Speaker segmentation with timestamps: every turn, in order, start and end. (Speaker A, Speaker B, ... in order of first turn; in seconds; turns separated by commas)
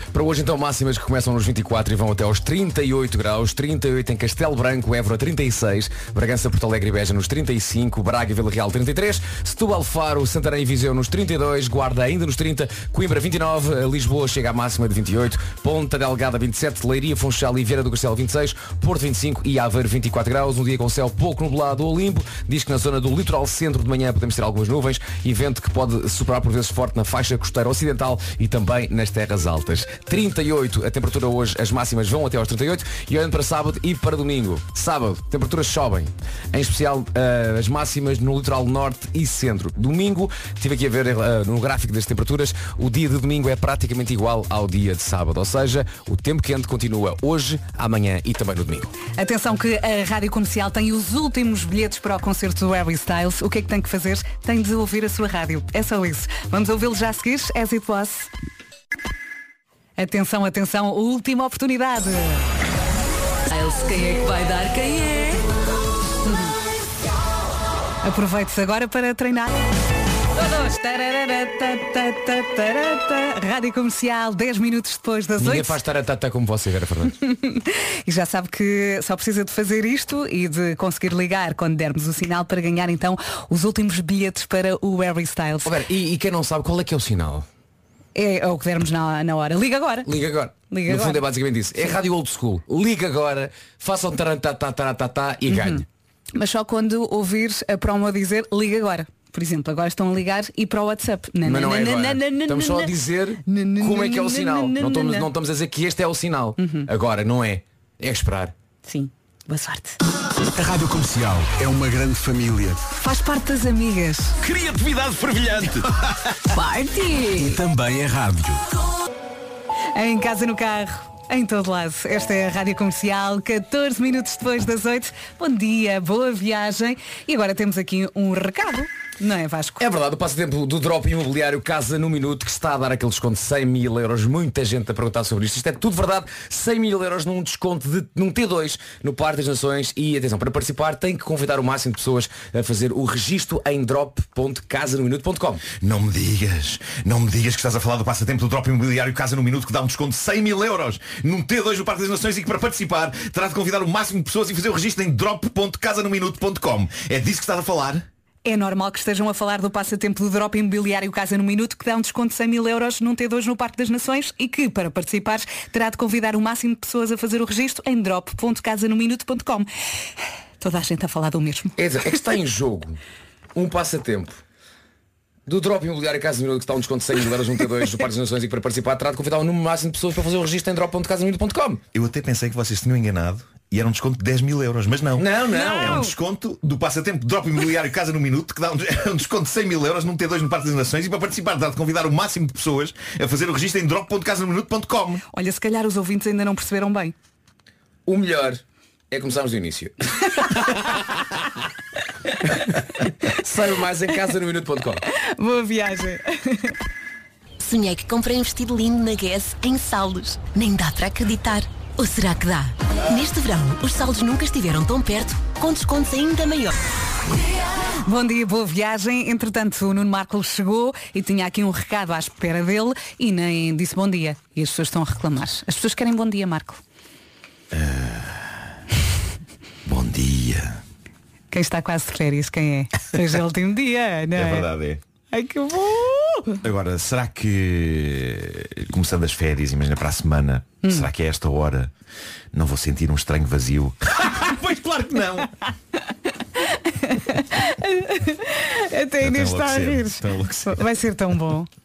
Speaker A: 0.1-48.9, Speaker B: 49.1-58.3, Speaker B: 60.0-62.5, Speaker B: 63.5-65.4, Speaker B: 66.2-66.5, Speaker B: 68.0-69.5, Speaker B: 70.3-75.8, Speaker A: 75.4-77.2, Speaker B: 77.3-85.7, Speaker A: 85.7-87.5, Speaker B: 88.2-90.1, Speaker A: 90.1-95.8, Speaker B: 90.7-91.2, Speaker B: 95.5-95.8, Speaker B: 96.3-105.3, Speaker A: 101.5-108.5, Speaker B: 106.6-106.9, Speaker B: 108.8-110.0, Speaker C: 110.5-112.8, Speaker B: 113.0-114.3, Speaker C: 114.5-115.8, Speaker B: 116.5-117.5, Speaker C: 117.3-118.7, Speaker B: 120.0-129.8, Speaker A: 129.8-145.7, Speaker D: 145.7-158.0, Speaker B: 158.4-169.7, Speaker B: 170.6-171.8, Speaker A: 171.8-173.0, Speaker A: 173.6-174.4, Speaker A: 175.5-181.8, Speaker D: 181.9-195.2, Speaker A: 185.2-186.0, Speaker B: 185.5-186.1, Speaker B: 195.3-197.2, Speaker A: 198.1-201.3, Speaker A: 202.5-205.0, Speaker B: 205.1-206.8, Speaker E: 207.6-216.7, Speaker B: 218.0-226.8, Speaker D: 227.7-228.6, Speaker D: 229.8-230.8, Speaker B: 231.5-234.7, Speaker D: 234.3-235.0, Speaker B: 235.3-236.6, Speaker D: 236.6-241.9, Speaker B: 240.8-241.1, Speaker D: 242.5-245.5, Speaker B: 246.6-251.7, Speaker D: 249.2-250.9